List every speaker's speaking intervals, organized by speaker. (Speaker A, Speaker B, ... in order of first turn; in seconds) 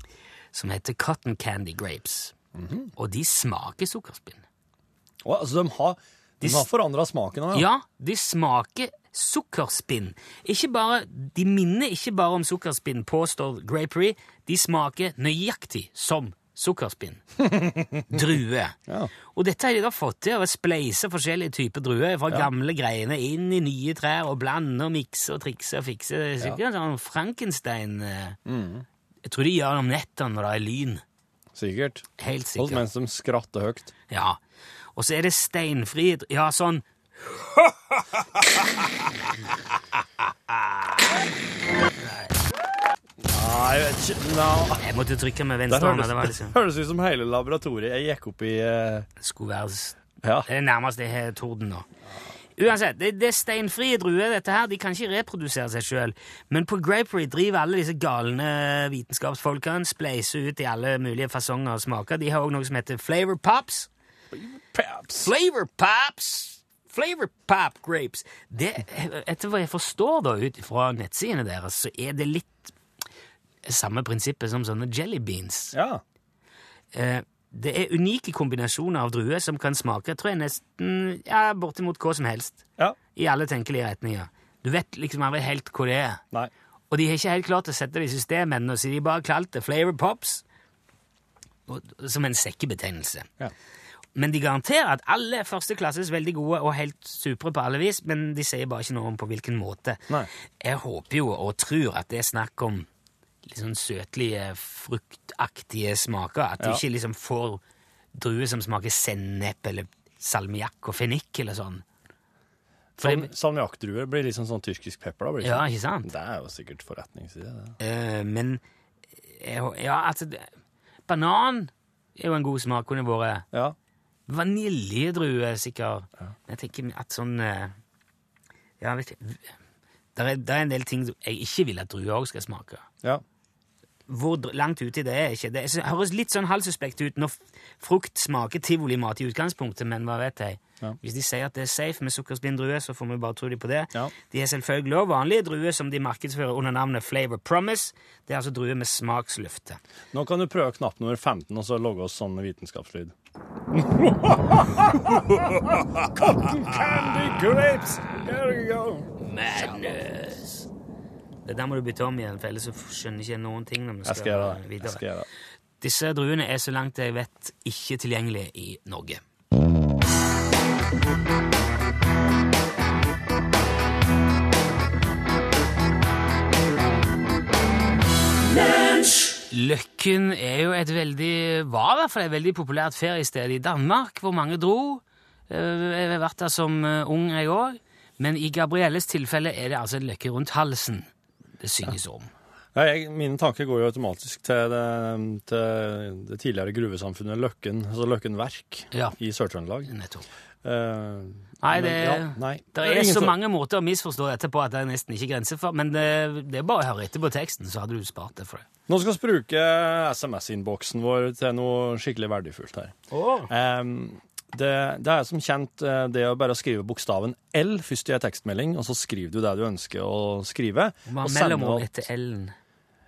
Speaker A: 0.5-2.3, 3.0-4.4, 6.4-6.7, 7.5-17.2, 18.1-18.8, 19.3-28.4, 29.2-31.0, 32.2-32.8, 34.1-34.4, 35.0-37.7, 40.5-41.1, 42.0-42.3, 44.8-46.5, 49.2-51.9, 52.6-63.9, 65.2-72.7, 73.6-75.7, 76.9-82.6, 83.1-86.2, 86.9-90.4, 91.7-93.3, 94.2-100.1, 100.6-102.9, 103.4-107.6, 108.1-111.8, 113.0-113.3, 115.4-116.1, 117.8-118.6, 119.3-120.5, 121.1-123.4, 124.3-127.7, 128.8-129.5, 130.2-132.8, 134.1-149.8, 159.2-160.7, 161.4-165.0, 165.8-169.2, 179.5-191.1, 191.6-192.3, 199.9-200.2, 201.6-208.6, 213.1-213.5, 221.1-222.6
Speaker B: 2.5-2.9, 5.2-7.7, 17.4-18.3, 28.4-28.9, 31.5-32.0, 32.6-33.9, 43.2-44.8, 45.7-49.1, 50.2-50.5, 64.3-65.3, 75.7-76.0, 113.0-117.8, 150.1-153.1, 153.7-159.1, 164.0-165.2, 192.7-199.9, 200.6-203.3, 208.9-212.9, 213.5-222.0